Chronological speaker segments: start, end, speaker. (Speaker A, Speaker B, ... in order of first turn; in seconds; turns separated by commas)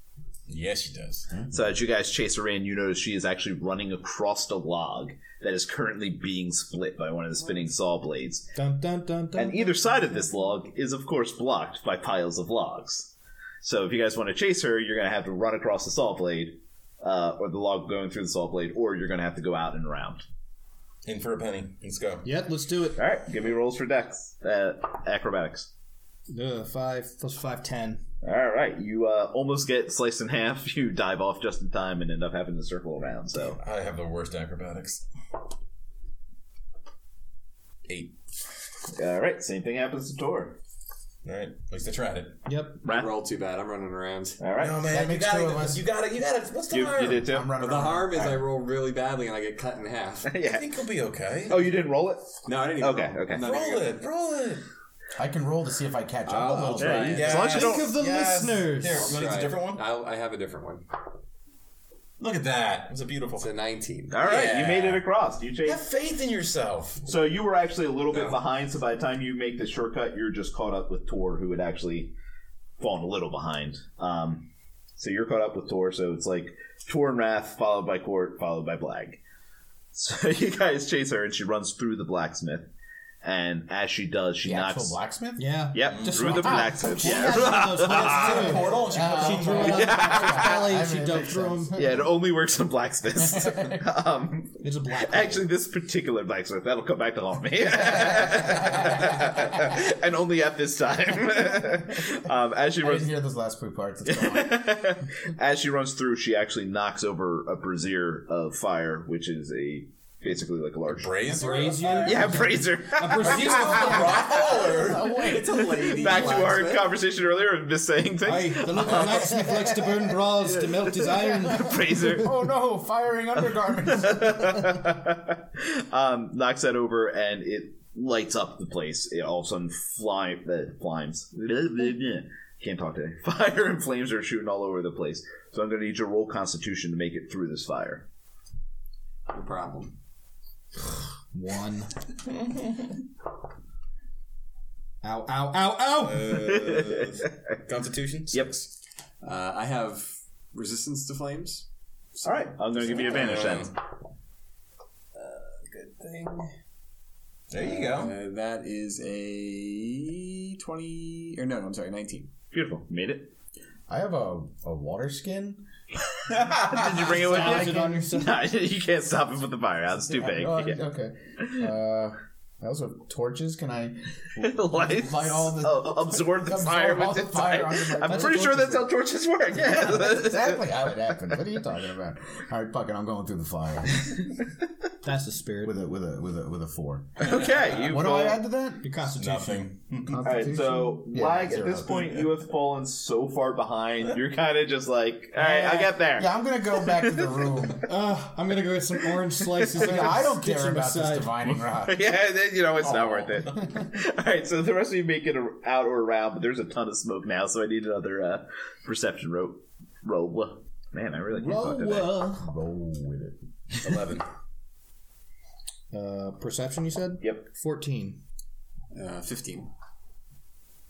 Speaker A: 0.5-1.3, Speaker B: 1.3-1.7, Speaker C: 1.5-8.5, Speaker D: 8.5-9.9, Speaker C: 9.3-20.2, Speaker A: 21.0-22.2, Speaker D: 22.2-23.0, Speaker C: 23.0-25.7, Speaker D: 26.3-28.0, Speaker C: 28.2-33.6, Speaker A: 33.4-35.0, Speaker A: 37.8-38.1, Speaker C: 39.0-40.6, Speaker A: 41.2-42.4, Speaker D: 42.5-42.8, Speaker E: 42.8-44.4, Speaker C: 42.8-43.1, Speaker C: 44.4-44.9, Speaker A: 44.5-47.3, Speaker B: 44.9-45.8, Speaker C: 46.7-47.5, Speaker B: 47.2-48.5, Speaker E: 47.6-50.3, Speaker C: 50.2-50.8, Speaker A: 50.4-51.7, Speaker C: 51.5-53.5, Speaker E: 52.4-54.1, Speaker A: 53.3-54.6, Speaker B: 55.1-57.4, Speaker E: 56.3-57.5, Speaker D: 56.5-59.1, Speaker C: 56.8-57.9, Speaker A: 57.1-59.8, Speaker E: 58.9-60.9, Speaker A: 62.2-63.5, Speaker E: 63.4-64.2, Speaker C: 64.1-65.8, Speaker A: 64.2-65.1, Speaker A: 65.6-67.1, Speaker C: 67.0-72.1, Speaker E: 68.1-68.4, Speaker C: 72.8-79.2, Speaker C: 79.9-82.7, Speaker C: 83.2-85.0, Speaker B: 84.4-85.6, Speaker D: 85.4-91.8, Speaker C: 85.7-89.0, Speaker A: 85.9-86.3, Speaker B: 86.3-92.1, Speaker A: 88.2-89.7, Speaker C: 89.5-90.7, Speaker C: 91.7-103.2, Speaker B: 93.2-93.8, Speaker D: 94.6-95.5, Speaker B: 97.8-98.9, Speaker B: 102.8-104.9, Speaker C: 104.1-111.2, Speaker A: 110.9-112.3, Speaker D: 111.2-114.2, Speaker E: 111.6-112.1, Speaker C: 112.0-114.7, Speaker A: 113.1-115.2, Speaker B: 113.8-116.1, Speaker E: 115.0-117.0, Speaker C: 115.5-122.4, Speaker D: 118.2-121.8, Speaker B: 118.9-120.2, Speaker B: 121.5-124.8, Speaker C: 123.5-138.1, Speaker E: 139.3-139.9, Speaker D: 141.3-141.9, Speaker A: 142.3-142.9, Speaker D: 145.0-146.6, Speaker A: 146.0-148.5, Speaker C: 146.7-147.1, Speaker E: 149.2-153.7, Speaker C: 152.2-153.7, Speaker A: 152.9-153.7, Speaker E: 155.1-156.5, Speaker A: 157.5-158.1, Speaker E: 157.6-162.3, Speaker C: 162.5-163.3, Speaker B: 163.9-165.6, Speaker C: 166.2-170.8, Speaker B: 166.6-168.0, Speaker D: 167.0-168.5, Speaker B: 170.1-178.8, Speaker C: 171.4-171.7, Speaker C: 174.4-180.9, Speaker D: 178.2-178.5, Speaker B: 179.6-184.2, Speaker D: 185.0-185.8, Speaker B: 185.6-189.0, Speaker C: 187.2-188.4, Speaker A: 187.2-187.8, Speaker D: 188.8-189.7, Speaker A: 189.1-190.3, Speaker B: 190.1-192.2, Speaker C: 190.2-197.7, Speaker D: 195.3-196.0, Speaker B: 196.1-197.9, Speaker D: 197.8-201.4, Speaker B: 199.6-202.0, Speaker C: 201.8-212.1, Speaker A: 202.8-203.7, Speaker D: 211.3-212.5, Speaker B: 211.8-213.4, Speaker A: 213.8-214.2, Speaker D: 215.9-218.2, Speaker E: 218.9-219.7